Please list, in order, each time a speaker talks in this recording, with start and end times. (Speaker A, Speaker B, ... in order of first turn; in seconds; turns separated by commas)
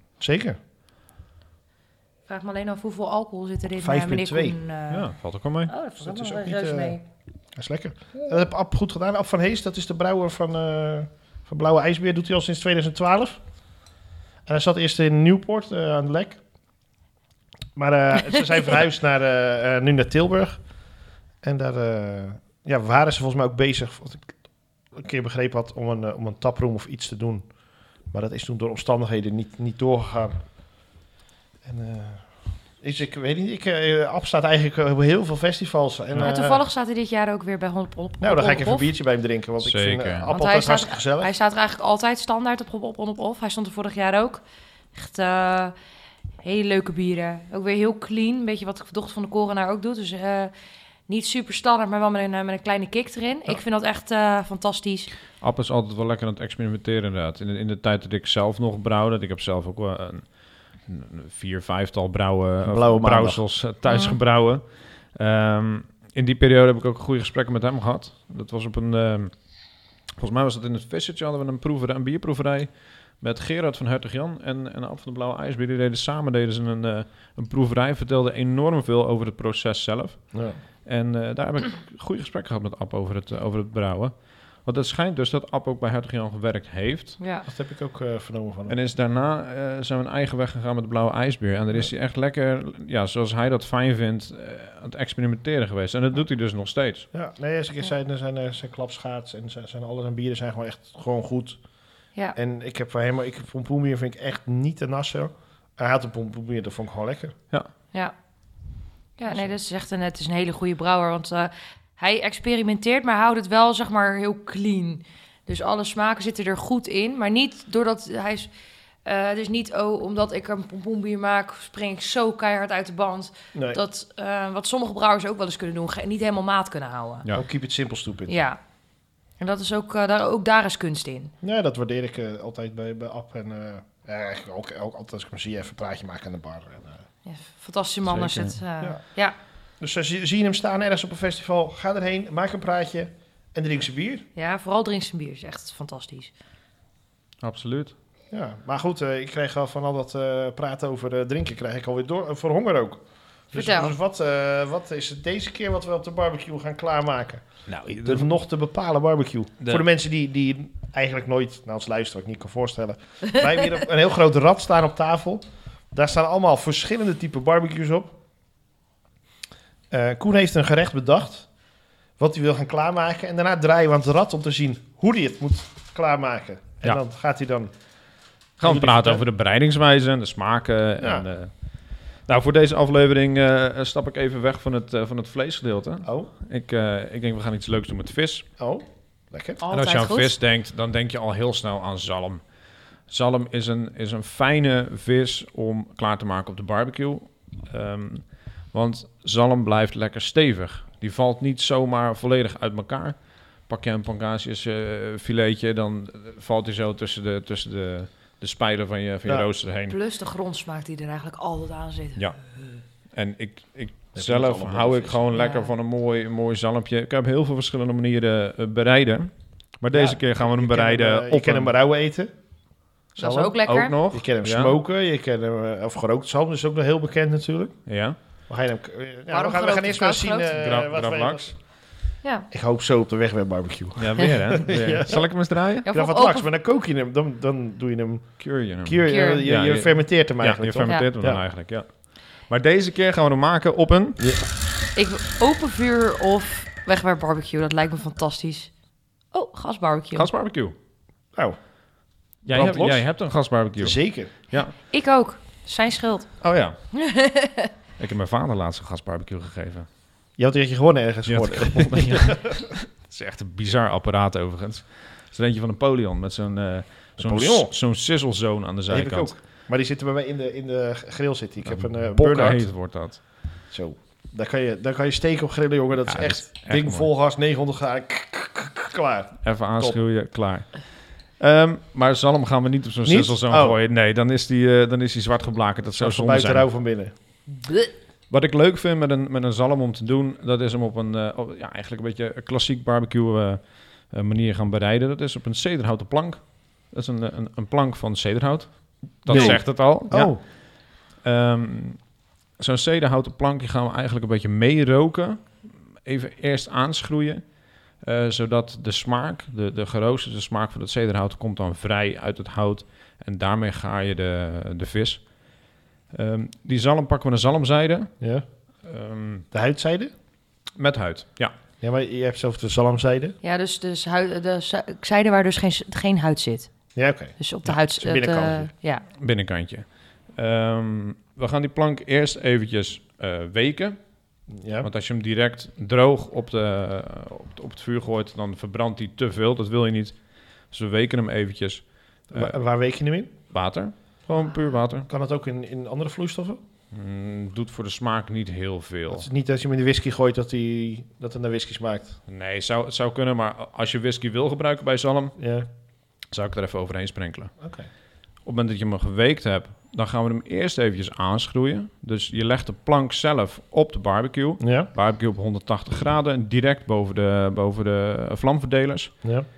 Speaker A: 0.2-0.6, Speaker B: 2.3-5.1, Speaker A: 3.8-4.6, Speaker C: 4.9-5.7, Speaker B: 5.7-7.0, Speaker A: 6.0-7.0, Speaker A: 7.5-13.4, Speaker A: 14.4-16.4, Speaker A: 17.7-20.6, Speaker A: 21.4-24.4, Speaker A: 24.9-27.5, Speaker A: 28.1-30.4, Speaker A: 31.6-36.6, Speaker B: 36.2-38.9, Speaker A: 38.2-41.3, Speaker C: 39.6-40.3, Speaker B: 40.3-44.4, Speaker B: 44.9-45.7, Speaker B: 46.4-50.5, Speaker B: 51.1-55.1, Speaker C: 55.4-69.3, Speaker A: 62.6-63.4, Speaker B: 63.9-64.2, Speaker C: 70.2-80.3, Speaker A: 80.3-80.6, Speaker C: 80.8-87.2, Speaker B: 87.2-87.5, Speaker A: 87.5-88.8, Speaker C: 88.7-97.1, Speaker A: 97.1-101.6, Speaker A: 102.3-107.3, Speaker B: 109.2-118.5, Speaker B: 119.0-127.2, Speaker A: 123.5-123.8, Speaker A: 127.3-128.4, Speaker B: 128.3-128.6, Speaker B: 129.4-131.3, Speaker A: 131.4-137.0, Speaker B: 137.2-139.3, Speaker C: 138.1-138.6, Speaker A: 139.8-144.3, Speaker B: 144.3-146.3, Speaker C: 147.4-147.9, Speaker A: 148.3-168.2, Speaker B: 153.5-153.9, Speaker C: 157.7-158.3, Speaker A: 169.9-171.5, Speaker A: 172.2-177.7, Speaker C: 178.6-181.5, Speaker A: 178.6-179.2, Speaker A: 181.0-181.2, Speaker C: 182.3-188.5, Speaker A: 186.0-186.3, Speaker A: 188.6-189.6, Speaker B: 189.6-190.3, Speaker C: 189.7-192.4, Speaker C: 193.1-209.9, Speaker B: 209.9-212.2, Speaker C: 213.1-221.7, Speaker A: 214.1-215.2, Speaker B: 215.3-215.7, Speaker A: 219.9-222.3, Speaker A: 223.1-223.6, Speaker B: 223.2-224.0, Speaker C: 223.6-224.8, Speaker A: 224.1-227.8, Speaker C: 227.9-228.2, Speaker A: 228.5-231.5, Speaker B: 229.3-230.6, Speaker C: 230.6-231.5, Speaker B: 232.2-232.5, Speaker A: 232.5-235.2, Speaker C: 234.0-235.8, Speaker B: 235.8-236.4, Speaker A: 235.8-241.4, Speaker C: 238.4-244.2, Speaker B: 239.1-239.4, Speaker A: 244.2-244.4, Speaker B: 244.9-248.7, Speaker B: 249.3-250.3, Speaker C: 250.1-250.7, Speaker C: 252.4-254.8, Speaker A: 252.5-253.1, Speaker A: 253.8-254.3, Speaker B: 254.8-256.3, Speaker C: 256.4-256.8, Speaker B: 256.9-257.7, Speaker C: 258.0-259.9, Speaker A: 260.4-262.6, Speaker C: 261.2-269.3, Speaker A: 267.2-267.7, Speaker A: 268.9-272.7, Speaker C: 271.6-273.3, Speaker A: 273.7-280.0, Speaker C: 276.1-277.1, Speaker C: 279.4-286.6, Speaker A: 283.0-283.8, Speaker A: 285.9-287.1, Speaker C: 288.3-302.0, Speaker A: 299.3-300.4, Speaker C: 302.6-307.4, Speaker C: 308.0-315.3, Speaker C: 316.1-318.1, Speaker C: 318.8-319.4, Speaker A: 319.5-320.1, Speaker C: 320.8-321.5, Speaker A: 321.8-323.4, Speaker B: 323.4-326.7, Speaker A: 326.9-328.7, Speaker B: 327.4-329.1, Speaker C: 329.1-334.0, Speaker A: 334.5-334.9, Speaker C: 334.8-340.1, Speaker C: 340.7-342.6, Speaker A: 342.3-343.3, Speaker C: 343.5-345.1, Speaker A: 345.1-346.6, Speaker C: 346.9-349.3, Speaker A: 349.1-352.2, Speaker C: 352.3-355.4, Speaker A: 355.4-355.7, Speaker C: 356.3-357.5, Speaker A: 357.6-357.9, Speaker C: 358.4-369.2, Speaker A: 364.6-364.9